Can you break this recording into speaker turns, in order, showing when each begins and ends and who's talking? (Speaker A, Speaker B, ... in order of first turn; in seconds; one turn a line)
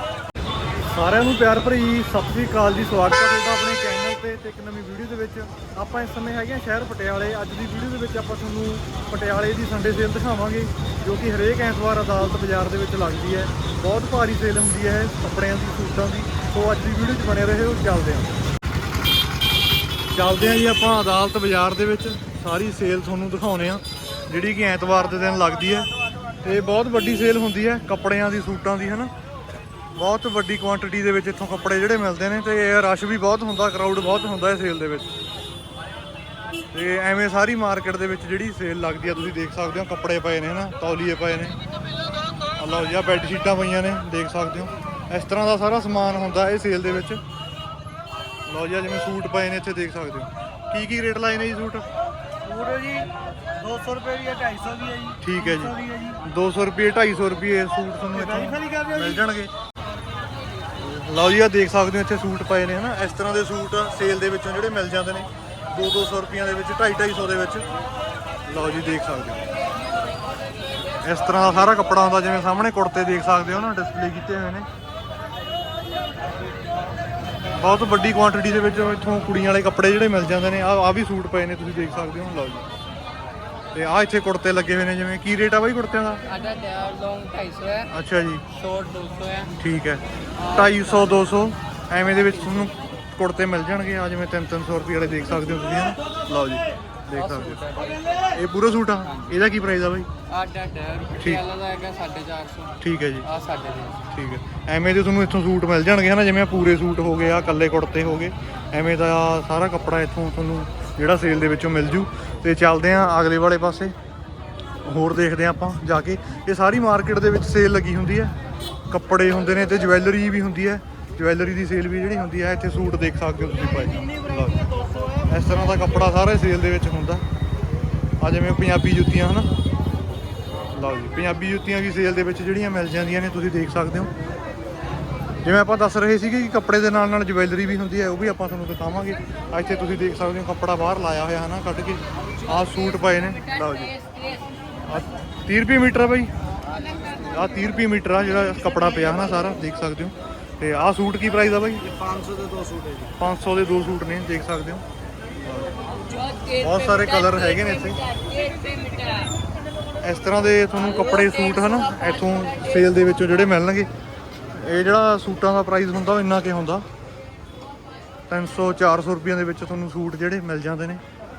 Speaker A: 0.9-18.4
Speaker A: 20.1-25.9
Speaker A: 26.4-29.1
Speaker A: 29.9-35.1
Speaker A: 36.7-41.6
Speaker A: 42.6-47.2
Speaker A: 48.5-51.9
Speaker B: 52.4-56.2
Speaker A: 55.2-59.5
Speaker B: 58.2-59.2
Speaker A: 60.8-67.6
Speaker A: 68.5-69.4
Speaker A: 71.0-74.7
Speaker A: 77.5-82.7
Speaker A: 83.7-86.2
Speaker C: 86.3-87.8
Speaker B: 87.4-87.8
Speaker A: 87.9-88.4
Speaker C: 88.6-89.5
Speaker B: 88.7-89.4
Speaker A: 89.6-97.7
Speaker B: 97.6-97.9
Speaker A: 98.3-100.1
Speaker C: 100.3-102.7
Speaker A: 101.2-101.5
Speaker B: 101.6-102.6
Speaker A: 102.8-103.3
Speaker C: 103.3-103.9
Speaker B: 103.4-103.9
Speaker A: 104.1-113.9
Speaker A: 114.8-118.3
Speaker A: 118.9-124.7
Speaker A: 125.3-127.2
Speaker A: 128.2-129.5
Speaker A: 130.7-134.1
Speaker A: 135.4-144.0
Speaker A: 144.9-146.3
Speaker A: 147.2-151.9
Speaker B: 151.8-153.1
Speaker A: 153.2-154.8
Speaker A: 155.4-155.7
Speaker A: 156.5-158.0
Speaker B: 158.1-159.2
Speaker C: 158.1-159.3
Speaker A: 160.0-163.9
Speaker A: 164.5-166.8
Speaker A: 168.3-171.0